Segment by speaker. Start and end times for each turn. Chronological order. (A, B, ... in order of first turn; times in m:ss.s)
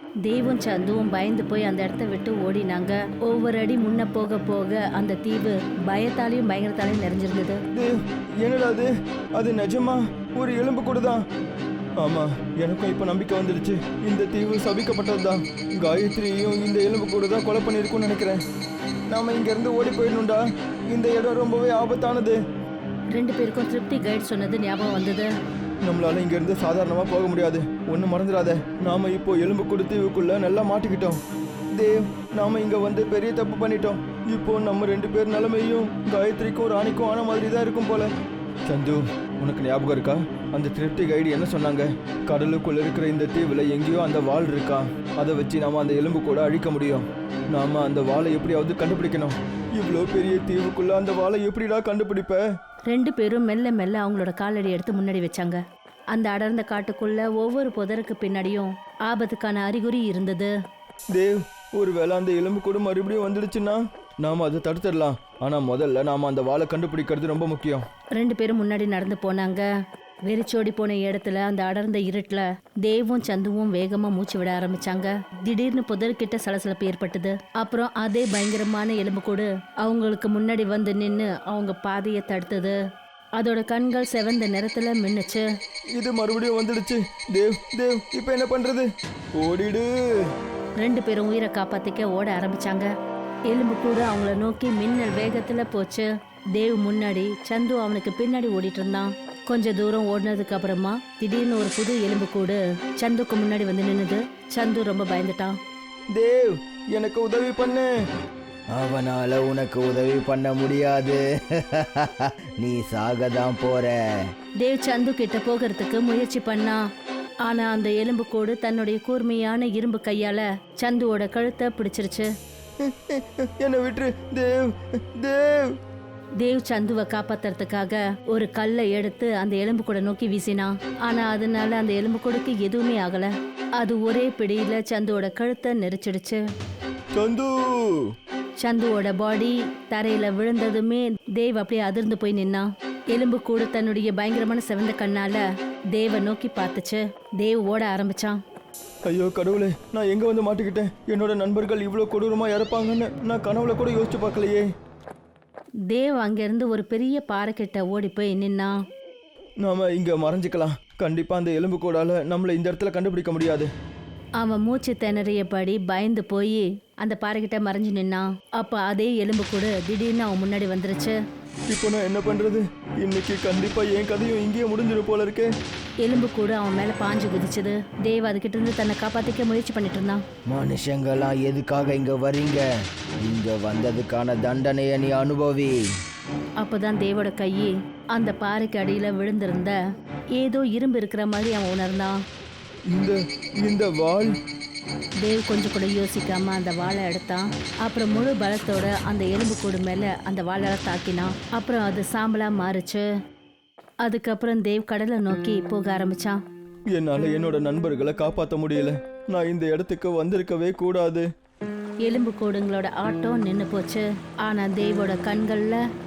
0:00.2-0:07.6 A
0:08.4-0:11.2 B
0:12.0-0:18.4 B
0:19.1-0:20.4 B
0:20.9-0:22.4 B
0:23.2-0:25.3 A
0:25.9-0:31.2 B
0:31.8-0:38.1 B
0:38.7-0:52.4 B
0:52.9-0:55.6 A
0:56.1-1:00.5 A
1:01.2-1:07.8 B
1:08.2-1:09.7 A
1:10.3-1:22.8 A
1:23.4-1:25.5 A
1:26.0-1:28.9 B
1:29.4-1:29.9 B
1:30.8-1:32.9 A
1:33.5-1:45.6 A
1:46.2-1:47.9 B
1:48.7-1:53.9 C
1:54.6-1:56.8 A
1:57.5-2:02.3 A
2:02.8-2:05.7 B
2:06.4-2:16.4 A
2:17.2-2:17.9 B
2:18.6-2:25.4 A
2:25.9-2:28.4 A
2:29.1-2:34.6 B
2:35.9-2:38.7 A
2:39.6-2:43.7 B
2:44.4-2:51.2 A
2:51.7-2:55.5 B
2:56.0-3:00.2 A
3:00.5-3:02.6 C
3:03.2-3:05.7 C
3:06.6-3:09.8 A
3:10.4-3:12.2 A
3:12.9-3:14.3 B
3:15.2-3:23.0 A
3:24.0-3:26.4 A
3:27.0-3:31.2 B
3:32.0-3:35.8 A